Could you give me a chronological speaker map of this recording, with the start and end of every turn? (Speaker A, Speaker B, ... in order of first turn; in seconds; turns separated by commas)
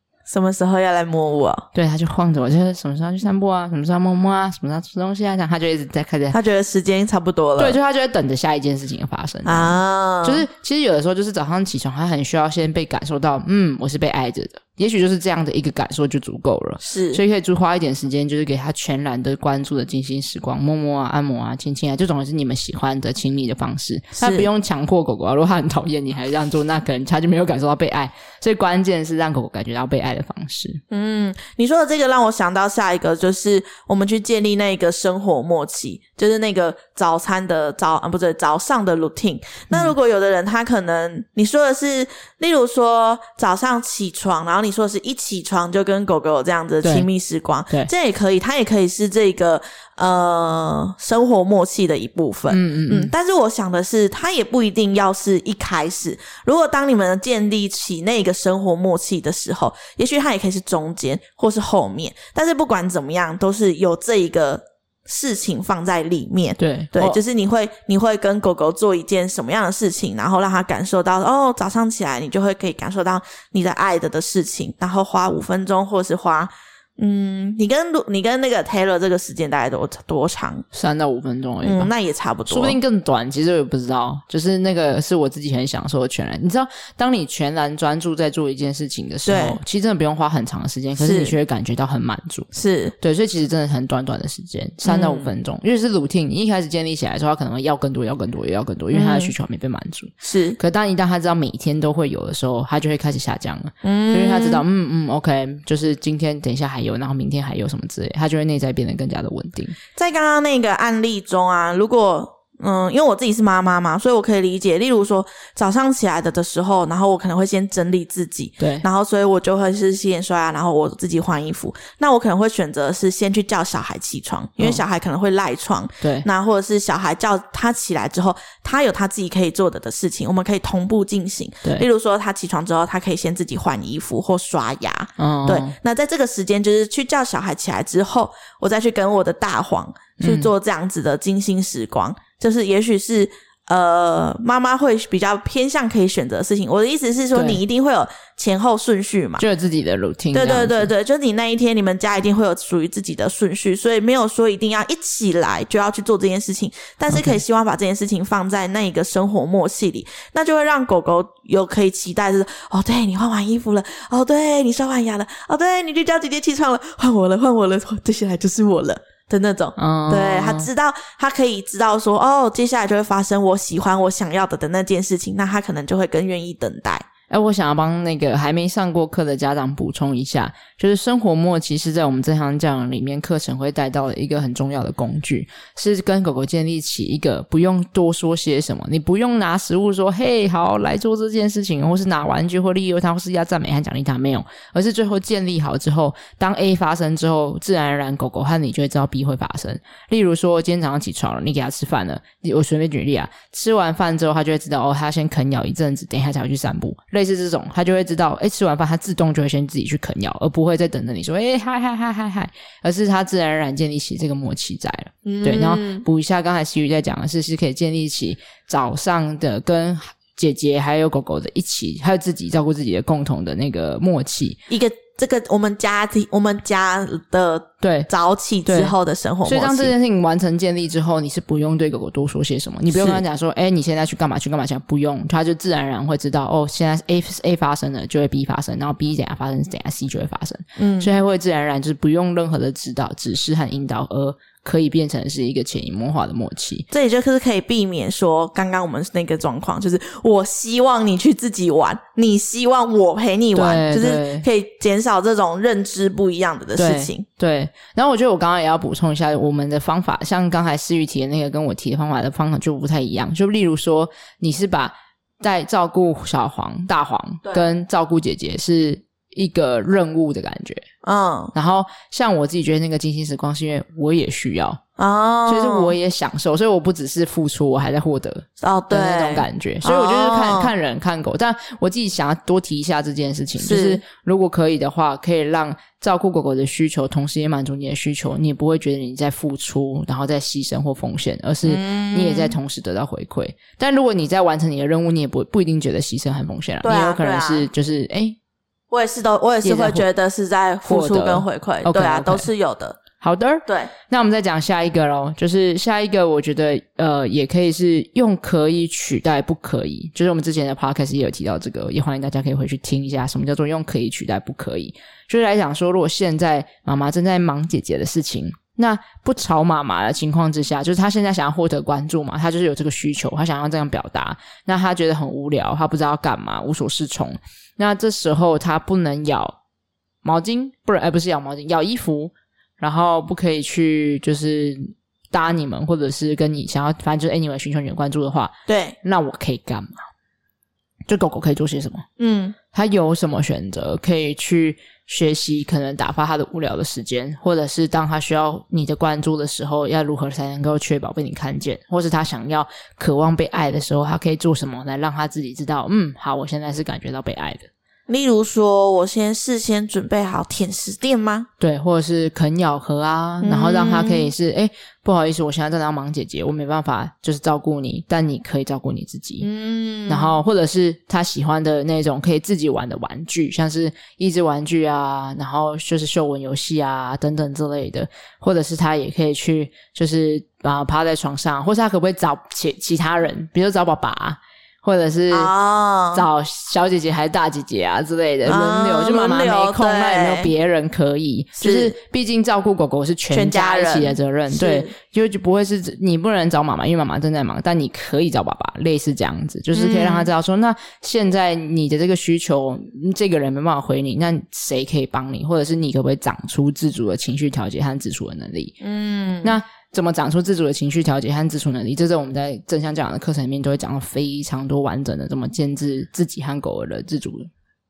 Speaker A: 0.3-1.6, Speaker B: 1.7-6.4, Speaker A: 6.3-7.8, Speaker B: 7.6-30.8, Speaker A: 9.4-10.4, Speaker A: 16.8-17.2, Speaker A: 24.1-24.5, Speaker A: 30.9-80.6, Speaker B: 46.8-47.1, Speaker B: 52.5-53.1, Speaker B: 66.6-67.2, Speaker B: 80.7-81.9, Speaker A: 81.6-82.8, Speaker B: 82.5-92.5, Speaker A: 89.2-89.6, Speaker A: 91.0-91.3, Speaker A: 92.5-92.9, Speaker B: 93.0-109.8, Speaker A: 94.8-95.3, Speaker A: 98.9-99.3, Speaker A: 100.2-100.6, Speaker A: 103.8-104.6, Speaker A: 110.0-149.4, Speaker B: 118.6-118.8, Speaker B: 126.0-126.3, Speaker B: 135.2-135.7, Speaker B: 140.2-140.5, Speaker B: 147.3-147.6, Speaker B: 149.4-150.9, Speaker A: 150.3-177.1, Speaker B: 157.1-157.4, Speaker B: 169.8-170.7, Speaker B: 177.3-224.6, Speaker A: 215.2-216.0, Speaker A: 224.7-229.9, Speaker B: 227.8-228.1, Speaker B: 228.7-228.9, Speaker B: 229.4-246.9, Speaker A: 232.9-233.2, Speaker A: 240.8-241.1, Speaker A: 246.9-257.2, Speaker B: 253.5-254.4, Speaker B: 256.8-270.8, Speaker A: 271.0-271.5, Speaker B: 271.5-274.8, Speaker A: 275.0-275.9, Speaker B: 275.5-298.4, Speaker A: 278.6-280.7, Speaker A: 283.6-284.0, Speaker A: 291.6-292.5, Speaker A: 296.8-297.7, Speaker A: 298.9-303.0, Speaker B: 299.6-300.1, Speaker B: 300.8-302.5, Speaker B: 303.2-329.6, Speaker A: 303.6-303.9, Speaker B: 330.2-340.1, Speaker A: 338.7-339.0, Speaker B: 341.1-342.0, Speaker A: 342.2-342.5, Speaker B: 342.7-357.7, Speaker A: 358.1-361.5, Speaker B: 361.6-369.5, Speaker A: 363.4-364.3, Speaker A: 369.4-370.4, Speaker B: 370.1-385.5, Speaker A: 385.3-386.2, Speaker B: 386.1-408.8, Speaker A: 388.4-390.5, Speaker A: 391.6-391.9, Speaker A: 393.3-394.9, Speaker A: 399.7-400.3, Speaker A: 408.8-409.6, Speaker B: 409.4-417.5